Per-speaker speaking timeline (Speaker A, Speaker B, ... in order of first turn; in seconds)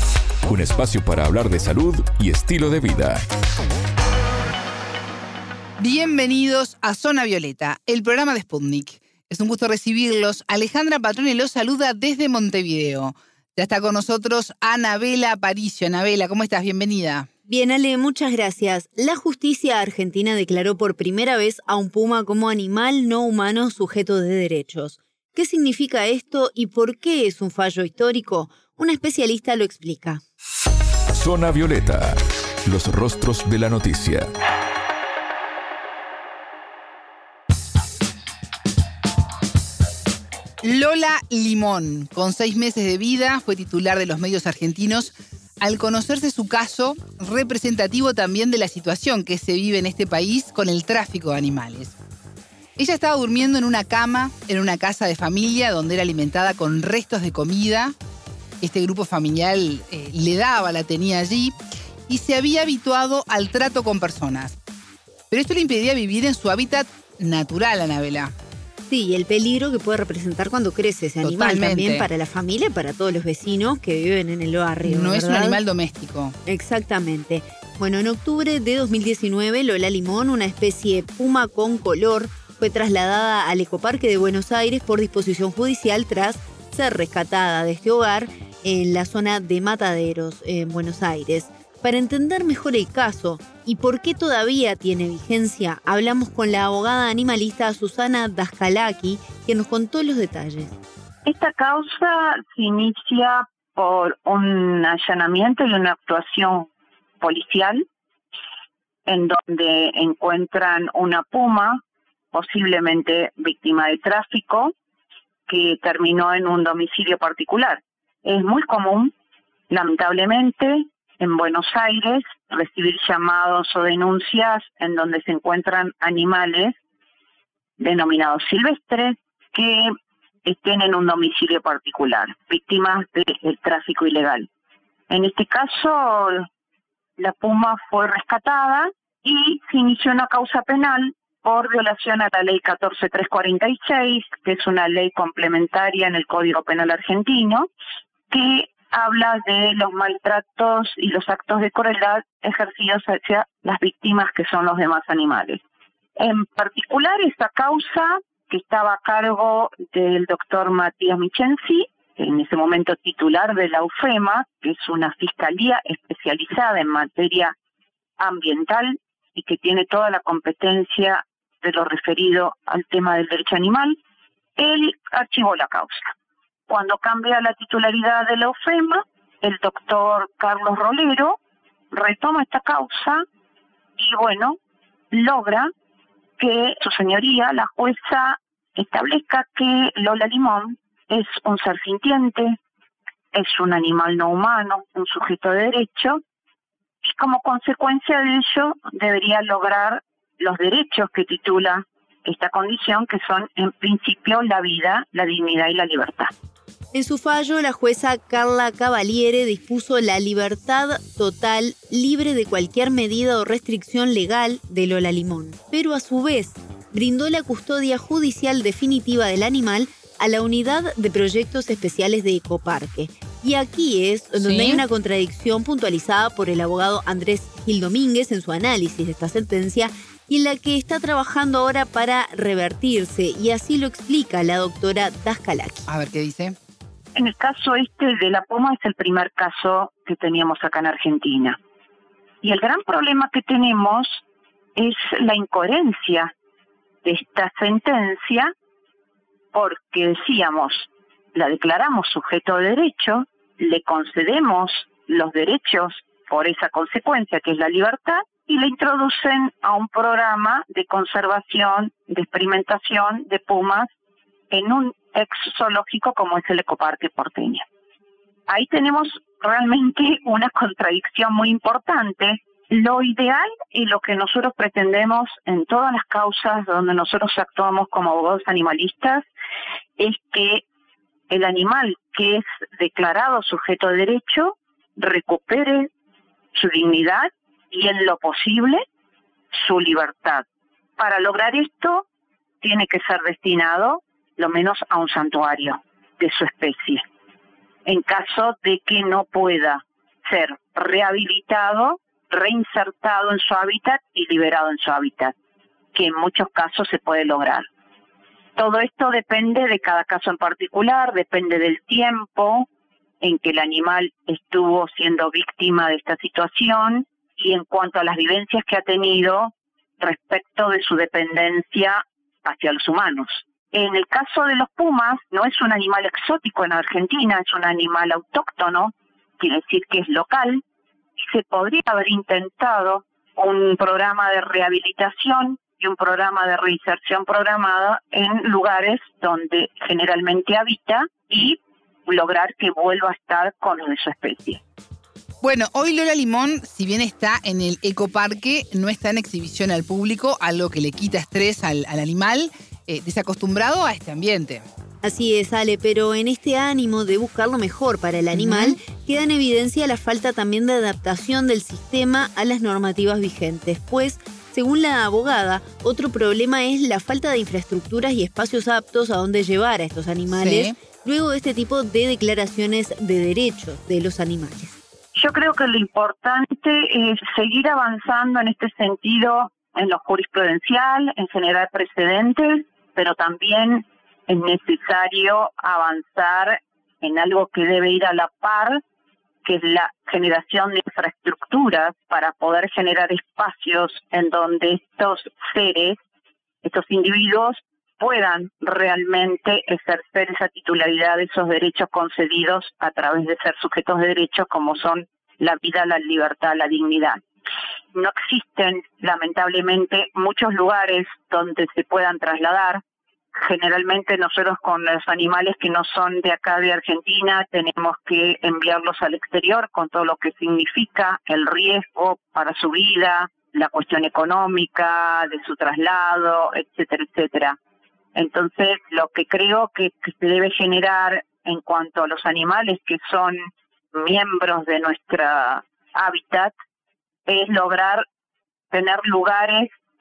Speaker A: 0.4-3.2, 31.1-34.3
Speaker B: 5.8-17.3, 40.6-52.0, 52.8-57.9, 58.6-61.5, 62.1-64.6, 65.3-68.3, 71.2-72.1, 74.8-76.3, 224.4-224.8, 235.9-236.5, 345.4-354.6, 358.3-358.8, 370.3-370.7
Speaker C: 17.4-30.2, 68.9-75.6, 76.4-100.8, 206.9-235.8, 355.0-374.8
Speaker D: 101.2-106.7, 107.2-107.8, 109.0-111.8, 112.3-114.7, 115.5-119.1, 119.7-126.8, 127.8-129.9, 130.4-134.5, 135.1-136.5, 137.2-147.7, 148.3-155.6, 156.2-167.5, 168.2-174.0, 174.6-176.1, 176.7-181.4, 181.9-183.2, 184.0-184.6, 185.1-185.7, 186.4-192.6, 193.3-196.2, 197.0-206.3, 237.1-241.6, 242.4-244.2, 244.8-246.3, 247.0-248.5, 249.5-263.9, 264.5-267.6, 268.5-279.2, 280.0-280.6, 281.3-285.9, 286.5-288.8, 289.5-290.4, 291.0-292.0, 292.6-297.0, 297.9-305.3, 305.9-307.6, 308.6-312.7, 313.2-330.6, 331.2-344.6, 375.1-388.8, 389.4-396.0, 396.6-407.2, 407.9-412.8, 413.3-427.6, 428.1-433.4, 433.9-436.5, 437.2-438.0, 438.7-439.7